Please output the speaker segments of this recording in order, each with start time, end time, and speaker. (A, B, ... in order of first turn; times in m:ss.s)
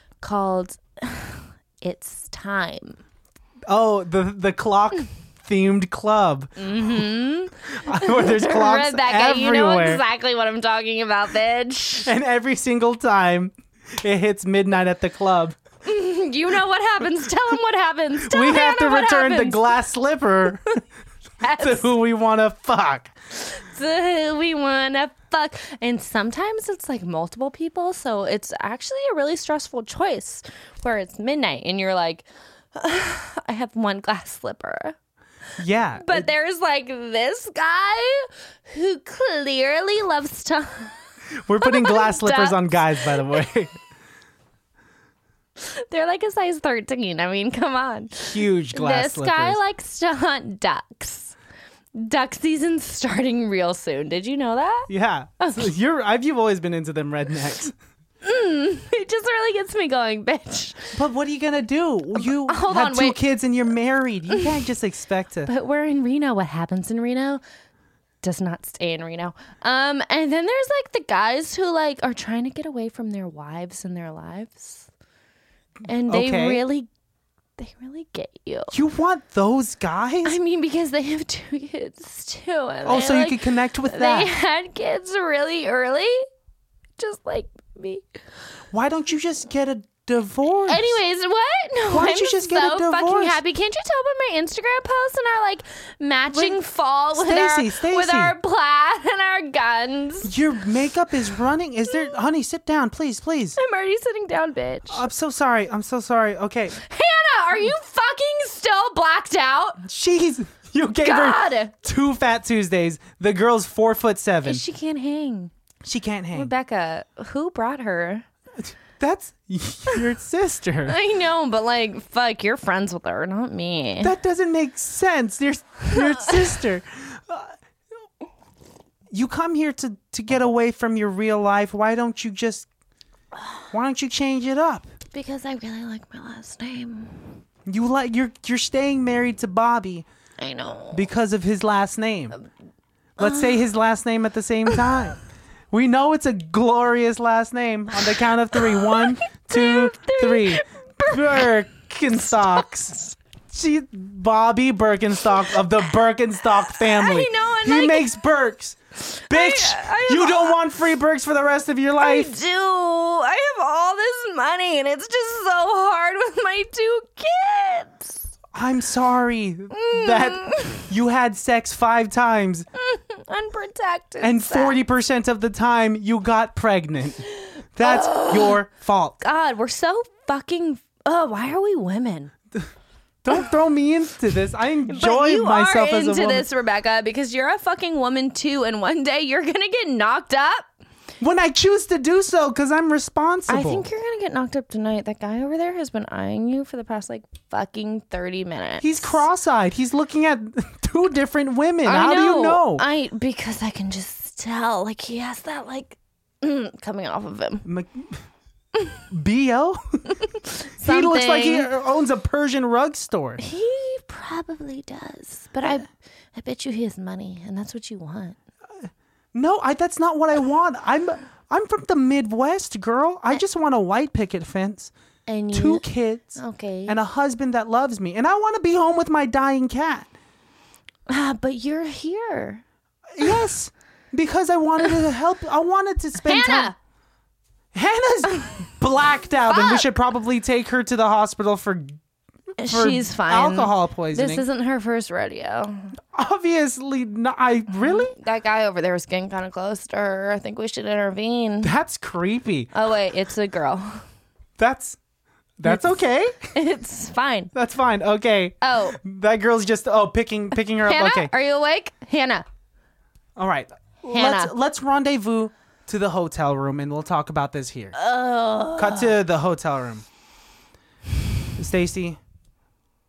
0:00.2-0:03.0 A
0:03.7-0:07.0 B
0:06.6-0:12.1 A
0:07.7-0:10.0 B
0:12.0-0:15.6 B
0:15.8-0:19.7 A
0:18.2-0:20.7 B
0:21.4-0:21.9 A
0:21.4-0:23.2 B
0:23.3-0:35.0 A
0:35.6-0:36.3 B
0:36.0-0:41.0 A
0:41.4-0:43.7 B
0:41.6-0:43.4 A
0:45.6-0:51.4 A
0:48.2-0:49.6 B
0:52.0-0:55.7 A
0:54.9-0:57.8 B
0:58.2-1:01.0 A
1:00.9-1:05.5 B
1:02.2-1:03.2 A
1:05.5-1:07.4 A
1:08.2-1:14.9 A
1:15.8-1:16.9 A
1:16.1-1:16.6 B
1:17.6-1:18.7 A
1:18.7-1:20.4 B
1:20.2-1:26.3 A
1:22.8-1:24.3 B
1:27.0-1:28.0 A
1:28.7-1:31.0 B
1:30.7-1:40.3 A
1:31.9-1:33.4 B
1:36.3-1:36.6 B
1:37.2-1:38.4 B
1:40.2-1:43.6 B
1:43.6-1:45.1 A
1:44.9-1:46.8 B
1:46.8-1:49.8 A
1:49.8-1:54.6 B
1:51.0-1:51.7 A
1:54.4-1:55.5 A
1:55.8-1:56.5 B
1:56.3-1:58.2 A
1:58.6-2:01.0 B
2:00.9-2:04.2 A
2:04.0-2:07.6 B
2:05.9-2:06.4 A
2:09.1-2:12.7 B
2:13.7-2:14.9 B
2:15.1-2:17.4 A
2:17.7-2:20.1 B
2:20.4-2:21.1 A
2:20.9-2:22.4 B
2:23.2-2:23.6 A
2:23.2-2:25.2 B
2:25.7-2:38.8 B
2:28.7-2:31.5 A
2:32.3-2:33.1 A
2:36.7-2:38.1 A
2:39.0-2:40.6 A
2:39.3-2:42.4 B
2:42.0-2:48.2 A
2:48.5-2:52.7 B
2:49.7-2:50.9 A
2:52.8-2:54.8 A
2:54.2-2:59.2 B
2:57.8-2:58.6 A
2:59.2-3:02.3 A
3:03.2-3:06.5 B
3:04.9-3:10.7 A
3:11.2-3:13.9 B
3:13.5-3:19.2 A
3:18.8-3:22.8 B
3:21.8-3:27.6 A
3:27.6-3:28.2 B
3:29.1-3:30.0 B
3:30.4-3:31.7 A
3:30.8-3:33.4 B
3:33.4-3:38.4 A
3:38.8-3:44.9 B
3:45.3-3:47.0 A
3:45.5-3:50.1 B
3:51.1-3:52.6 A
3:53.1-3:56.7 B
3:56.2-3:56.8 A
3:57.7-4:02.0 B
3:59.5-3:59.9 A
4:02.6-4:06.0 A
4:02.7-4:04.4 B
4:06.1-4:08.2 B
4:07.8-4:11.7 A
4:11.6-4:12.7 B
4:12.7-4:14.0 A
4:14.6-4:15.0 B
4:15.6-4:16.5 B
4:15.6-4:16.0 A
4:16.5-4:17.5 A
4:17.5-4:21.3 B
4:18.6-4:19.0 A
4:20.8-4:22.4 A
4:23.4-4:28.0 B
4:24.1-4:24.5 A
4:27.9-4:29.1 A
4:28.8-4:30.1 B
4:31.6-4:32.2 B